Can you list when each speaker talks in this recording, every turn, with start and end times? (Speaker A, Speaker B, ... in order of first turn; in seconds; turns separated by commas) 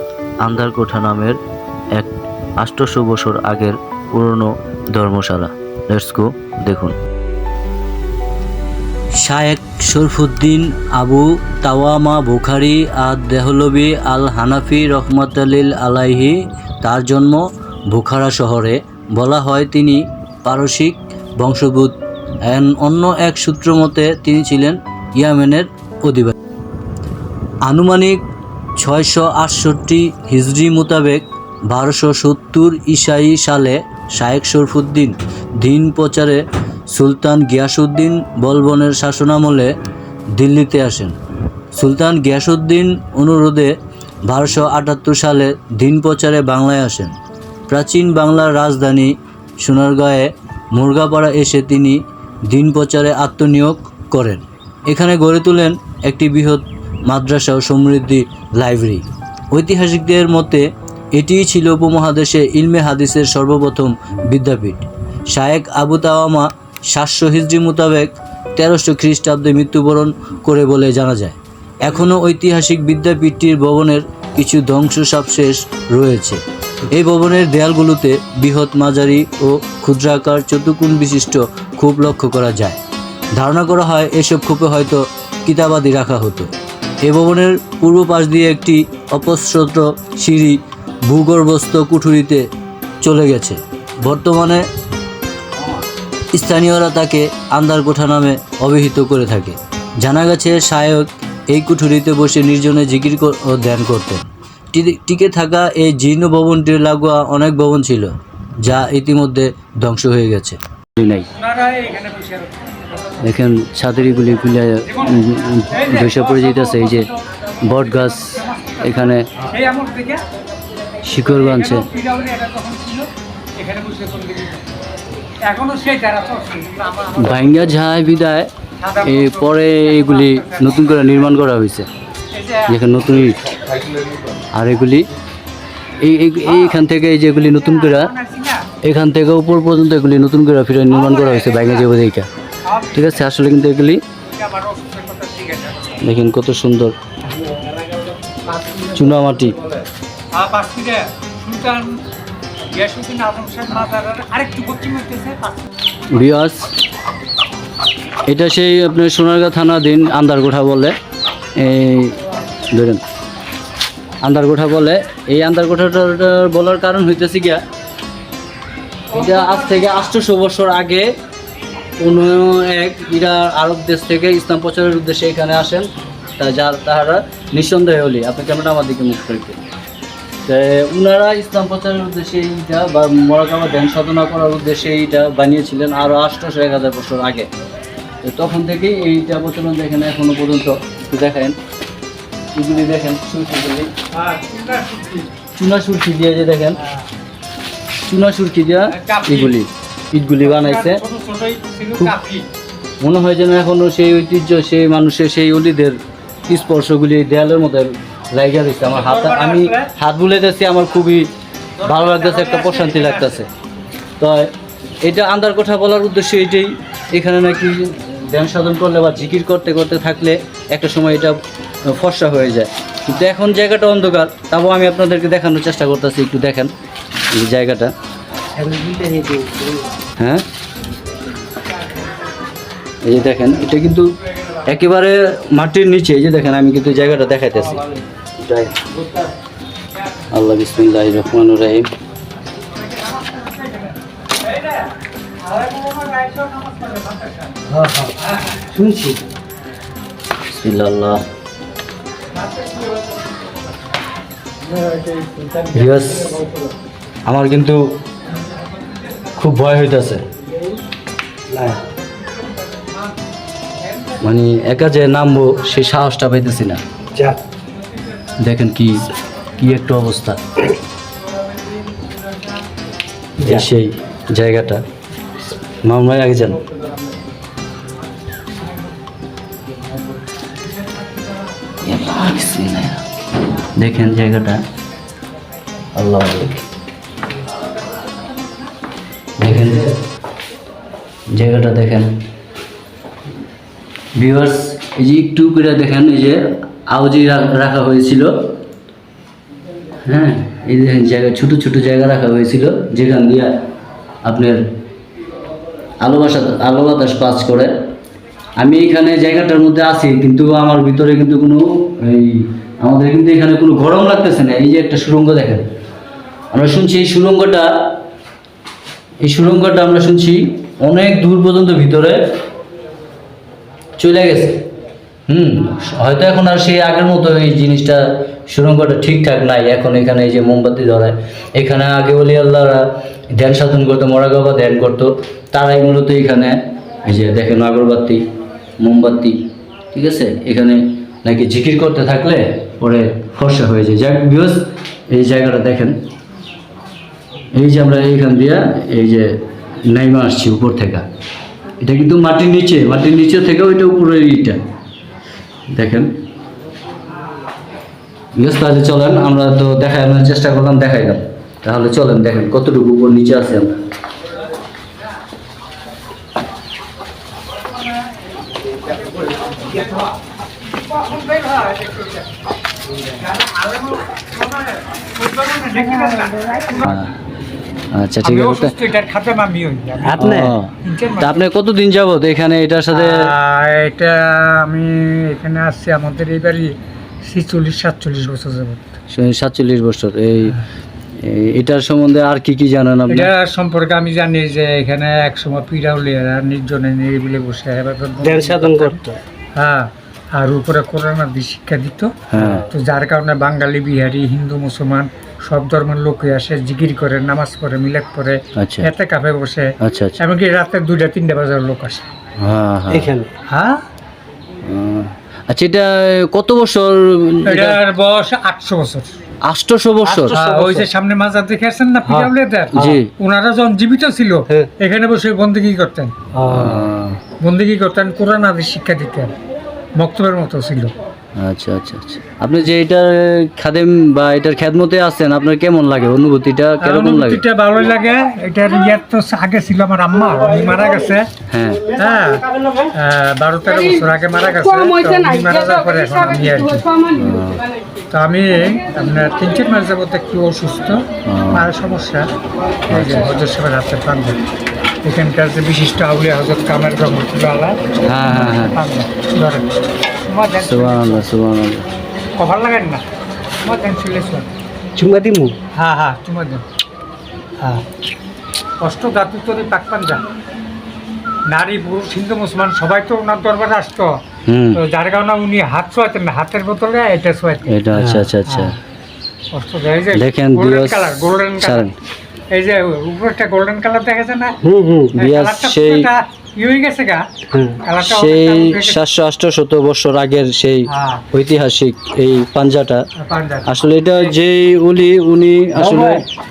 Speaker A: 0.4-1.4, Speaker A: 1.9-7.0, Speaker A: 9.2-21.9, Speaker A: 22.5-26.4, Speaker A: 27.7-28.2, Speaker A: 28.8-39.7, Speaker A: 40.4-41.2, Speaker A: 41.8-43.7, Speaker A: 44.3-47.1, Speaker A: 47.7-82.8, Speaker A: 83.4-86.5, Speaker A: 87.0-92.4, Speaker A: 93.0-94.6, Speaker A: 96.3-111.3, Speaker B: 111.3-113.2, Speaker A: 113.2-117.1, Speaker B: 114.9-120.2, Speaker A: 117.6-119.3, Speaker A: 121.0-121.9, Speaker B: 121.2-124.7, Speaker B: 125.4-127.7, Speaker A: 127.2-128.5, Speaker B: 128.8-131.1, Speaker A: 129.0-131.9, Speaker B: 132.3-132.8, Speaker A: 132.7-133.5, Speaker A: 134.5-135.1, Speaker A: 136.0-138.1, Speaker B: 136.5-138.7, Speaker A: 138.8-142.3, Speaker B: 140.9-141.9, Speaker B: 142.7-143.2, Speaker A: 142.9-144.0, Speaker B: 144.2-146.0, Speaker A: 146.0-146.9, Speaker A: 148.9-149.6, Speaker B: 150.3-152.0, Speaker B: 152.7-155.7, Speaker A: 156.1-156.7, Speaker A: 158.3-160.9, Speaker A: 161.6-162.2, Speaker A: 162.7-163.0, Speaker A: 164.2-167.6, Speaker A: 169.1-171.1, Speaker B: 169.1-170.1, Speaker A: 172.0-179.6, Speaker A: 180.5-187.5, Speaker A: 188.2-191.6, Speaker A: 192.5-193.9, Speaker B: 194.1-195.3, Speaker A: 195.6-196.8, Speaker A: 198.1-201.0, Speaker B: 198.9-199.6, Speaker B: 200.4-202.5, Speaker A: 203.0-211.3, Speaker B: 208.8-209.9, Speaker A: 211.8-213.5, Speaker B: 211.8-213.4, Speaker A: 214.2-226.7, Speaker A: 227.3-227.9, Speaker C: 228.6-229.9, Speaker A: 230.2-230.4, Speaker A: 233.0-237.9, Speaker A: 238.4-238.8, Speaker A: 240.3-241.9, Speaker B: 242.6-247.7, Speaker C: 247.7-249.2, Speaker A: 250.5-251.3, Speaker B: 252.4-253.1, Speaker C: 254.9-255.7, Speaker A: 255.7-256.4, Speaker A: 257.3-257.8, Speaker A: 259.3-260.2, Speaker C: 261.5-261.8, Speaker B: 262.6-263.1, Speaker B: 263.9-264.2, Speaker A: 264.2-266.8, Speaker A: 268.4-269.1, Speaker A: 269.6-270.4, Speaker C: 273.4-273.7, Speaker A: 273.4-274.8, Speaker A: 275.8-276.6, Speaker A: 281.8-283.1, Speaker A: 283.8-284.6, Speaker A: 285.9-286.6, Speaker A: 289.4-290.0, Speaker A: 291.3-292.1, Speaker A: 294.2-298.3, Speaker A: 300.1-303.5, Speaker A: 304.2-304.6, Speaker A: 306.0-307.7, Speaker A: 308.6-315.7, Speaker A: 316.5-317.7, Speaker A: 319.2-322.2, Speaker A: 324.0-324.6, Speaker A: 325.3-338.3, Speaker A: 338.8-346.0, Speaker A: 347.5-351.1, Speaker A: 351.8-354.6, Speaker A: 355.7-356.1, Speaker A: 358.4-363.8, Speaker B: 370.9-372.3, Speaker B: 373.1-376.9, Speaker A: 376.8-377.1, Speaker A: 377.9-378.7, Speaker B: 378.2-381.4, Speaker C: 380.0-380.6, Speaker A: 380.2-383.3, Speaker B: 382.9-388.9, Speaker A: 389.1-390.6, Speaker A: 391.2-393.3, Speaker B: 393.1-399.0, Speaker C: 398.2-399.2, Speaker B: 399.6-412.0, Speaker A: 402.3-402.7, Speaker A: 408.6-408.9, Speaker A: 409.8-410.1, Speaker A: 412.4-413.1, Speaker C: 412.9-413.3, Speaker B: 413.5-413.8, Speaker A: 414.6-417.8, Speaker B: 417.5-419.1, Speaker A: 419.4-420.4, Speaker B: 420.1-426.1, Speaker C: 420.3-420.9, Speaker C: 422.1-423.0, Speaker A: 422.7-423.1, Speaker C: 426.3-426.9, Speaker A: 426.4-427.2, Speaker B: 427.4-429.3, Speaker B: 430.0-430.9, Speaker A: 431.4-437.4, Speaker B: 436.8-441.3, Speaker A: 441.5-441.9, Speaker B: 441.9-447.1, Speaker A: 447.1-447.6, Speaker B: 448.1-452.3, Speaker A: 451.3-451.7, Speaker B: 452.9-454.4, Speaker A: 452.9-453.4, Speaker B: 455.0-459.7, Speaker A: 458.0-458.8, Speaker B: 460.2-461.2, Speaker A: 460.6-461.8, Speaker B: 462.4-463.0, Speaker B: 463.6-464.5, Speaker C: 465.0-465.6, Speaker B: 465.7-466.6, Speaker B: 467.6-467.9, Speaker B: 468.8-470.2, Speaker B: 471.5-474.2, Speaker A: 474.5-474.8, Speaker B: 474.8-477.7, Speaker A: 477.7-478.8, Speaker C: 478.0-478.3, Speaker B: 478.5-478.8, Speaker B: 479.5-481.9, Speaker A: 480.1-481.9, Speaker B: 482.5-484.6, Speaker C: 484.6-485.1, Speaker A: 485.1-486.1, Speaker B: 485.1-487.2, Speaker C: 487.5-487.8, Speaker B: 487.8-489.0, Speaker A: 488.0-493.1, Speaker B: 490.9-491.2, Speaker B: 493.2-494.3, Speaker A: 493.7-496.2, Speaker C: 495.8-496.3